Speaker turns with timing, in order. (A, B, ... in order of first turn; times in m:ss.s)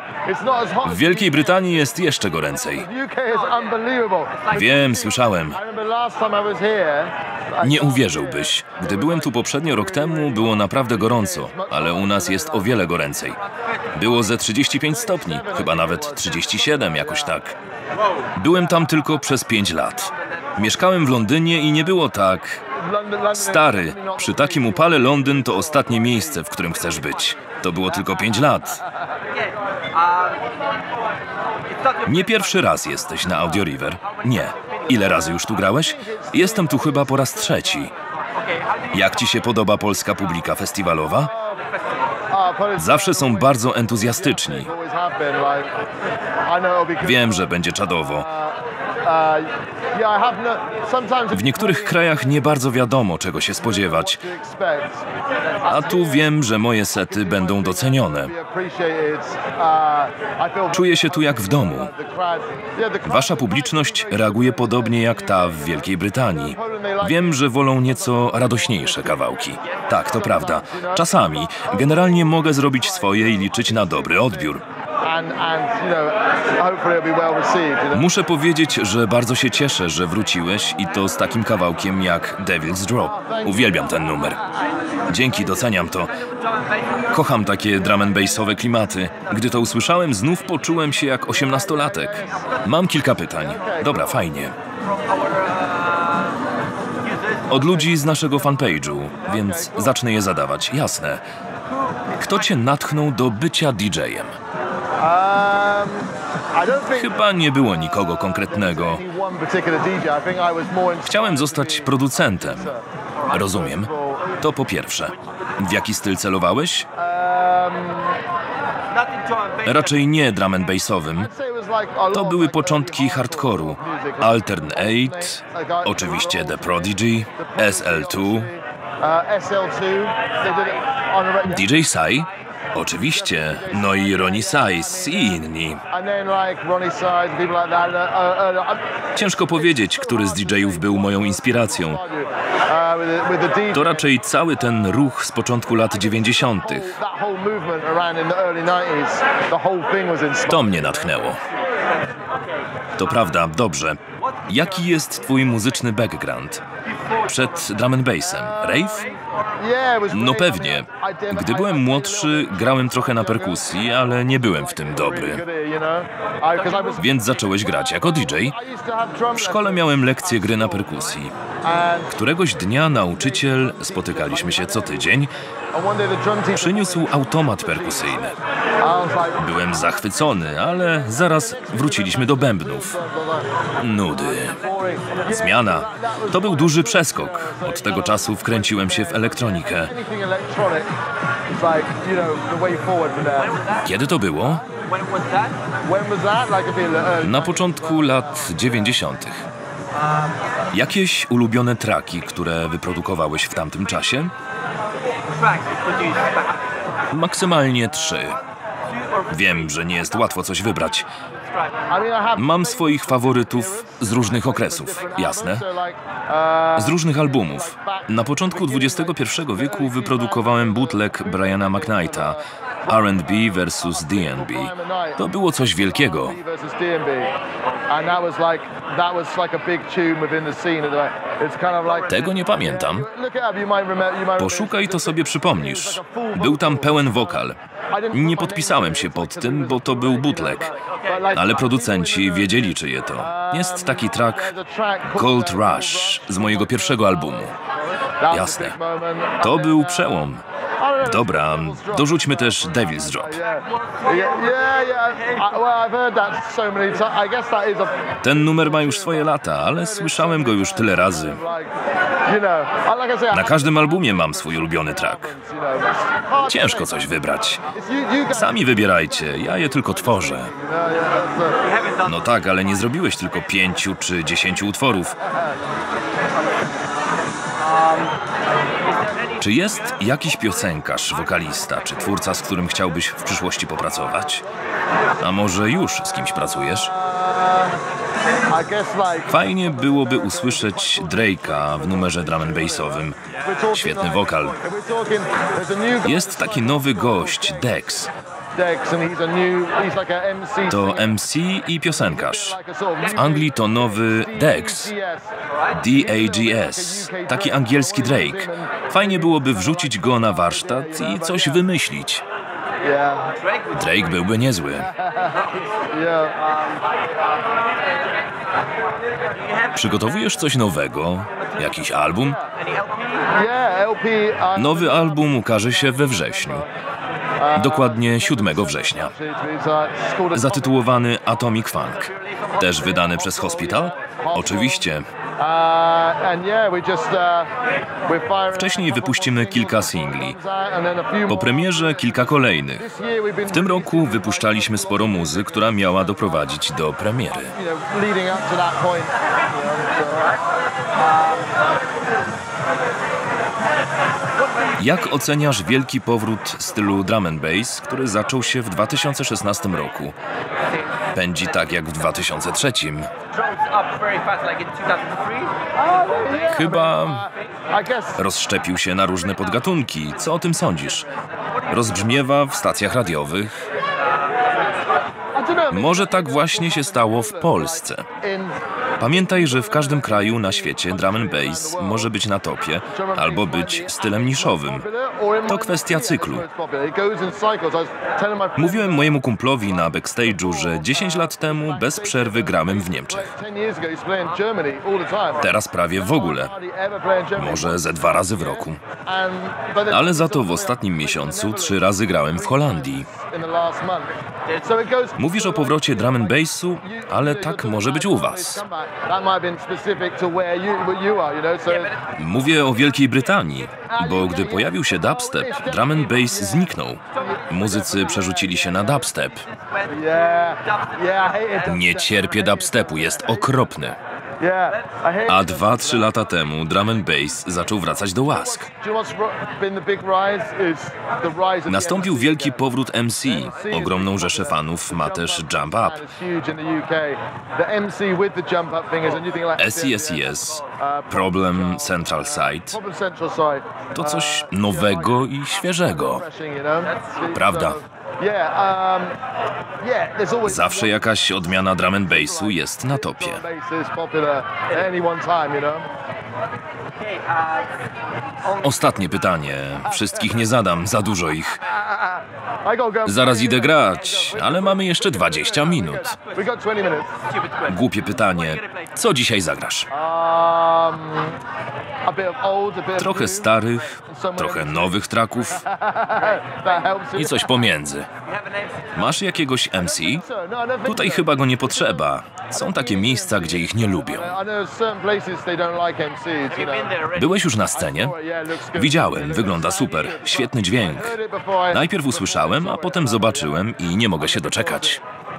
0:00.2-0:01.8 A
0:00.8-0:02.9 B
0:02.6-0:04.5 A
0:04.4-0:05.6 B
0:05.5-0:12.9 A
0:07.6-0:13.4 B
0:13.9-0:17.6 B
0:14.9-0:17.4 A
0:18.3-0:22.6 B
0:22.8-0:27.4 A
0:23.3-0:28.8 B
0:27.9-0:29.3 A
0:29.5-0:30.4 C
0:31.7-0:32.0 C
0:32.0-0:37.9 B
0:35.4-0:37.9 A
0:38.5-0:38.9 C
0:38.9-0:41.3 B
0:41.2-0:41.7 A
0:42.3-0:45.8 A
0:42.8-0:44.7 B
0:46.4-0:47.5 A
0:47.0-0:48.3 B
0:48.1-0:52.3 A
0:51.3-0:54.2 B
0:53.6-0:55.1 A
0:55.6-0:58.3 B
0:55.7-0:56.3 A
0:56.9-1:18.1 A
1:00.7-1:01.9 B
1:03.0-1:14.6 B
1:17.9-1:24.4 B
1:23.0-1:25.3 A
1:25.0-1:26.3 B
1:26.3-1:26.9 C
1:27.0-1:34.6 B
1:27.8-1:28.6 A
1:31.2-1:32.7 A
1:33.4-1:34.2 A
1:35.0-1:36.3 C
1:37.1-1:37.5 C
1:37.5-1:41.2 B
1:39.2-1:40.0 A
1:42.2-1:44.3 B
1:45.0-1:54.3 A
1:46.9-1:49.0 B
1:51.0-1:52.7 B
1:53.3-1:56.9 B
1:56.9-1:58.2 A
1:58.9-1:59.6 C
1:59.6-2:01.3 B
2:01.2-2:11.7 A
2:02.1-2:08.5 B
2:11.5-2:15.8 B
2:13.0-2:24.1 A
2:19.2-2:22.0 B
2:23.7-2:26.9 B
2:25.9-2:31.1 A
2:30.5-2:31.4 B
2:33.0-2:36.6 B
2:37.2-2:39.2 B
2:38.3-2:52.2 A
2:40.1-2:45.4 B
2:46.9-2:48.6 B
2:49.3-2:51.4 B
2:52.1-2:55.3 B
2:53.0-2:55.2 A
2:55.7-3:03.5 A
2:56.5-2:58.3 B
2:59.4-3:03.0 B
3:03.8-3:04.6 B
3:04.1-3:10.9 A
3:05.2-3:09.9 B
3:11.5-3:13.8 A
3:13.8-3:14.7 B
3:14.9-3:15.6 C
3:15.8-3:19.0 A
3:17.2-3:19.4 B
3:20.7-3:24.3 B
3:25.4-3:26.5 C
3:27.1-3:28.4 B
3:29.3-3:31.1 B
3:31.9-3:45.2 A
3:32.4-3:35.7 B
3:36.8-3:46.4 B
3:45.8-3:47.3 A
3:47.9-3:57.4 A
3:52.1-3:53.1 B
3:54.4-3:57.6 B
3:57.9-4:07.6 A
3:58.1-4:00.8 B
4:01.3-4:04.5 B
4:05.1-4:07.5 B
4:08.2-4:10.3 A
4:08.3-4:08.8 B
4:09.4-4:10.4 B
4:10.8-4:31.7 A
4:11.0-4:13.4 B
4:18.2-4:21.4 B
4:23.3-4:25.4 B
4:26.4-4:27.6 B
4:28.3-4:30.5 B
4:32.0-4:35.2 B
4:39.4-4:44.5 B
4:45.2-4:46.9 B
4:46.8-4:47.8 A
4:48.5-4:57.9 A
4:49.3-4:54.6 B
4:56.0-4:58.1 B
4:58.6-5:01.1 A
5:00.7-5:04.9 B
5:01.9-5:11.6 A
5:05.7-5:12.2 B
5:12.8-5:13.4 A
5:13.7-5:14.9 B
5:14.8-5:16.5 A
5:19.7-5:22.4 B
5:22.2-5:22.5 A
5:22.8-5:23.2 C
5:23.2-5:25.3 A
5:24.6-5:26.7 B
5:25.9-5:26.6 A
5:27.4-5:30.8 A
5:27.6-5:29.1 B
5:30.3-5:35.1 B
5:32.9-5:37.5 A
5:38.0-5:46.5 A
5:38.5-5:40.4 B
5:41.3-5:42.9 B
5:43.5-5:47.6 B
5:47.5-5:50.3 A
5:54.8-6:00.2 B
6:01.1-6:03.1 B
6:03.3-6:05.6 C
6:05.7-6:08.2 A
6:06.3-6:07.3 B
6:08.2-6:11.1 B
6:11.7-6:13.6 B
6:15.4-6:18.6 A
6:15.7-6:18.1 B
6:19.0-6:24.9 B
6:19.1-6:22.1 A
6:22.9-6:52.0 A
6:25.5-6:26.4 B
6:28.6-6:33.3 B
6:35.4-6:36.5 B
6:37.4-6:38.8 B
6:39.9-6:43.1 B
6:45.2-6:48.6 B
6:52.0-6:59.4 B
6:53.9-6:59.1 A
6:59.9-7:03.7 A
7:01.6-7:04.0 B
7:04.4-7:06.1 A
7:05.2-7:08.7 B
7:08.2-7:12.7 A
7:11.7-7:16.0 B
7:13.3-7:29.2 A
7:19.6-7:22.8 B
7:24.0-7:26.2 B
7:27.3-7:27.8 B
7:29.8-7:35.9 A
7:30.4-7:33.5 B
7:37.0-7:37.7 C
7:38.6-7:41.7 B
7:39.8-7:40.4 A
7:41.7-7:47.2 A
7:43.0-7:46.2 B
7:47.6-7:49.9 B
7:49.9-7:51.4 A
7:52.0-7:57.6 A
7:53.0-7:55.7 B
7:57.2-7:58.1 B
7:58.9-8:00.3 B
7:59.9-8:07.1 A
8:00.8-8:04.4 B
8:07.0-8:08.2 B
8:07.7-8:15.0 A
8:08.7-8:11.2 B
8:11.7-8:15.0 B